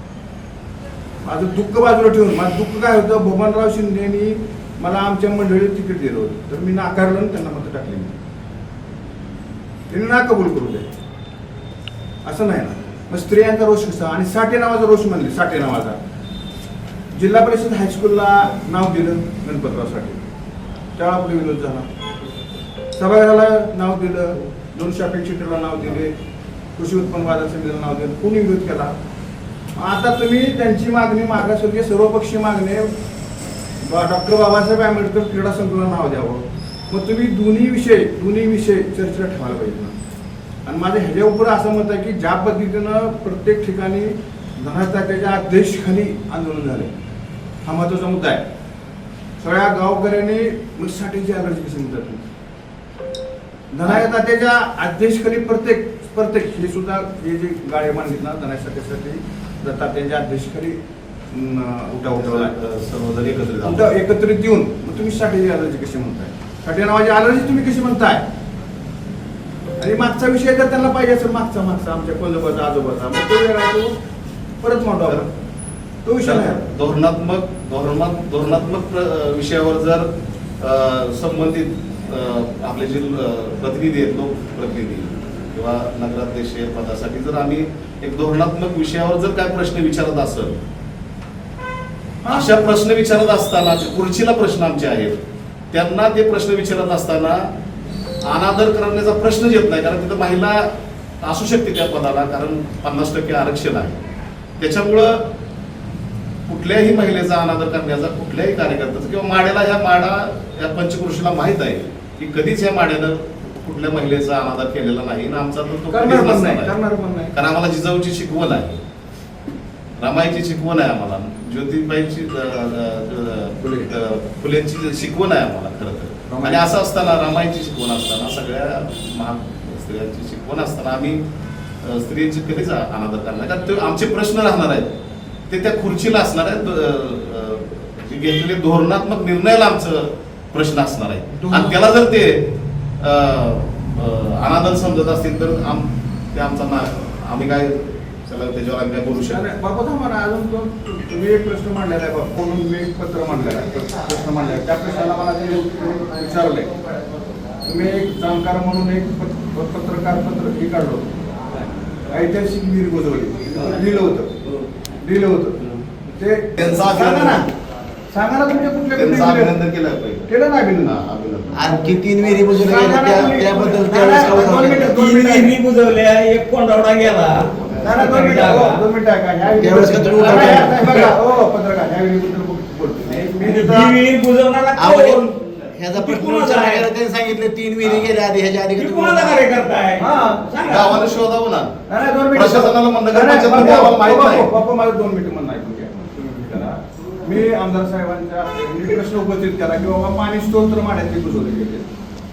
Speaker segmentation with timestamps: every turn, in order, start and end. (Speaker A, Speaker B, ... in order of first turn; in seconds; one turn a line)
Speaker A: 1.2-8.2
Speaker A: 9.9-10.9
Speaker A: 12.2-16.0
Speaker A: 17.1-20.3
Speaker A: 21.0-21.9
Speaker A: 23.0-26.2
Speaker A: 26.8-28.9
Speaker A: 29.8-32.9
Speaker A: 33.8-39.9
Speaker A: 40.6-46.9
Speaker A: 47.6-48.5
Speaker A: 49.4-52.2
Speaker A: 53.7-62.5
Speaker B: 62.1-63.9
Speaker A: 63.6-68.3
Speaker A: 69.8-74.0
Speaker A: 74.6-75.3
Speaker A: 76.0-76.7
Speaker B: 76.2-80.1
Speaker B: 80.6-90.6
Speaker A: 92.2-92.5
Speaker B: 92.3-95.2
Speaker B: 95.7-97.5
Speaker B: 98.2-104.0
Speaker B: 104.6-105.2
Speaker B: 106.5-116.7
Speaker A: 115.9-117.3
Speaker B: 117.3-118.8
Speaker B: 120.0-131.2
Speaker A: 123.6-123.9
Speaker A: 126.3-126.7
Speaker B: 131.8-134.9
Speaker B: 135.5-142.5
Speaker A: 141.3-141.9
Speaker B: 143.0-149.4
Speaker A: 149.1-156.7
Speaker A: 157.6-161.1
Speaker A: 162.1-164.4
Speaker A: 164.9-167.5
Speaker B: 166.6-167.4
Speaker A: 168.1-169.6
Speaker B: 168.9-170.3
Speaker A: 170.3-170.9
Speaker B: 170.8-171.9
Speaker C: 171.6-175.0
Speaker A: 172.6-175.6
Speaker D: 174.8-178.8
Speaker B: 177.5-178.1
Speaker A: 177.8-183.9
Speaker C: 179.6-180.8
Speaker D: 180.2-181.1
Speaker D: 183.1-185.4
Speaker C: 184.8-189.5
Speaker D: 185.9-186.9
Speaker B: 187.8-188.1
Speaker D: 188.8-191.2
Speaker A: 190.0-190.5
Speaker B: 190.7-191.8
Speaker A: 191.9-201.9
Speaker B: 192.3-194.5